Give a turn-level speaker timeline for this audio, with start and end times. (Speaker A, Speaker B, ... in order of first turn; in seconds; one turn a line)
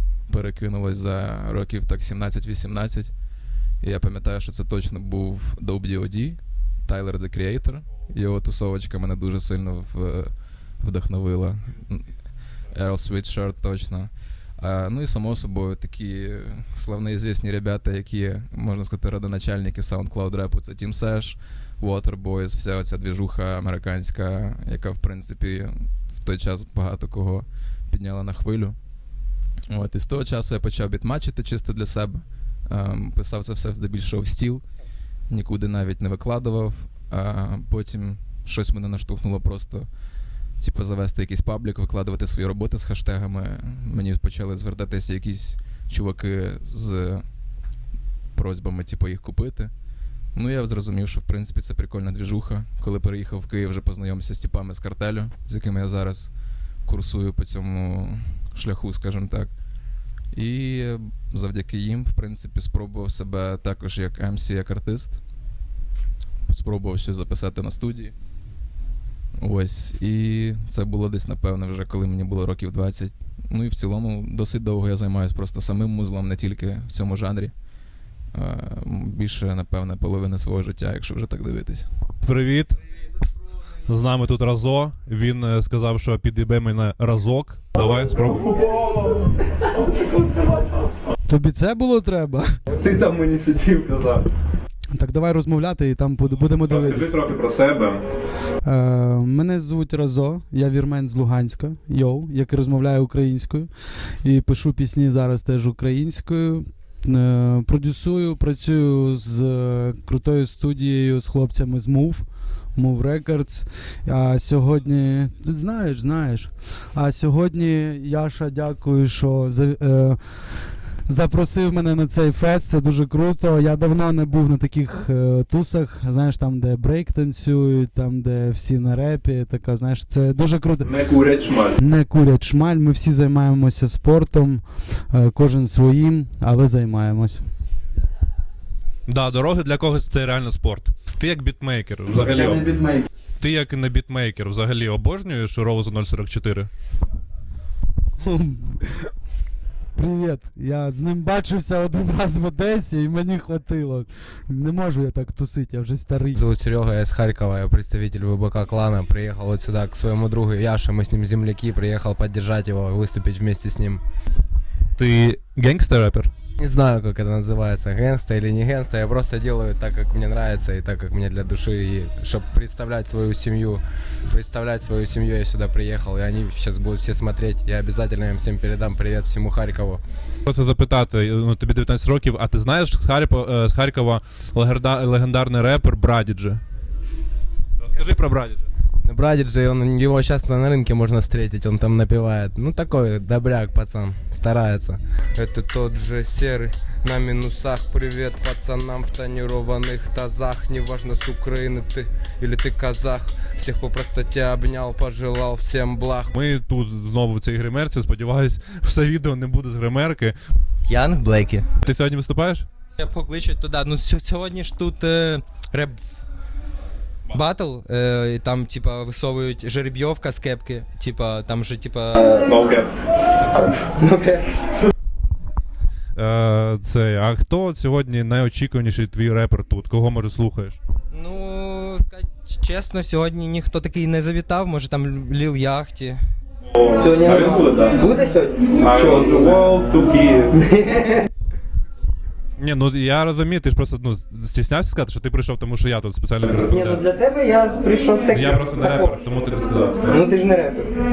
Speaker A: 0.3-3.1
Speaker A: 3.8-12.1
Speaker A: 12.7-28.8
Speaker A: 29.7-34.6
Speaker A: 35.3-39.9
Speaker A: 40.6-47.2
Speaker A: 48.3-49.7
Speaker A: 50.3-56.3
Speaker A: 56.9-59.5
Speaker A: 60.3-65.2
Speaker A: 66.5-68.1
Speaker A: 69.4-77.5
Speaker A: 78.3-81.9
Speaker B: 82.2-82.8
Speaker B: 83.9-88.7
Speaker C: 91.2-92.6
Speaker B: 92.8-94.2
Speaker C: 94.9-97.2
Speaker B: 96.3-98.0
Speaker C: 98.6-130.9
Speaker B: 130.8-131.8
Speaker C: 131.8-137.5
Speaker B: 139.1-142.7
Speaker C: 142.1-143.0
Speaker B: 143.4-146.7
Speaker C: 148.2-148.9
Speaker C: 149.9-156.4
Speaker D: 156.3-164.0
Speaker B: 165.0-166.3
Speaker D: 166.6-180.0
Speaker B: 180.5-186.6
Speaker B: 187.8-188.7
Speaker D: 189.0-206.3
Speaker B: 206.3-210.3
Speaker D: 210.9-211.7
Speaker B: 211.8-212.7
Speaker D: 214.3-215.9
Speaker D: 217.3-221.8
Speaker E: 222.2-222.9
Speaker E: 223.5-224.4
Speaker B: 226.2-230.8
Speaker F: 231.3-234.0
Speaker F: 234.6-236.2
Speaker B: 236.7-238.0
Speaker E: 236.9-241.2
Speaker B: 238.8-239.8
Speaker B: 242.6-247.0
Speaker E: 246.5-249.2
Speaker B: 248.3-250.2
Speaker E: 250.0-251.0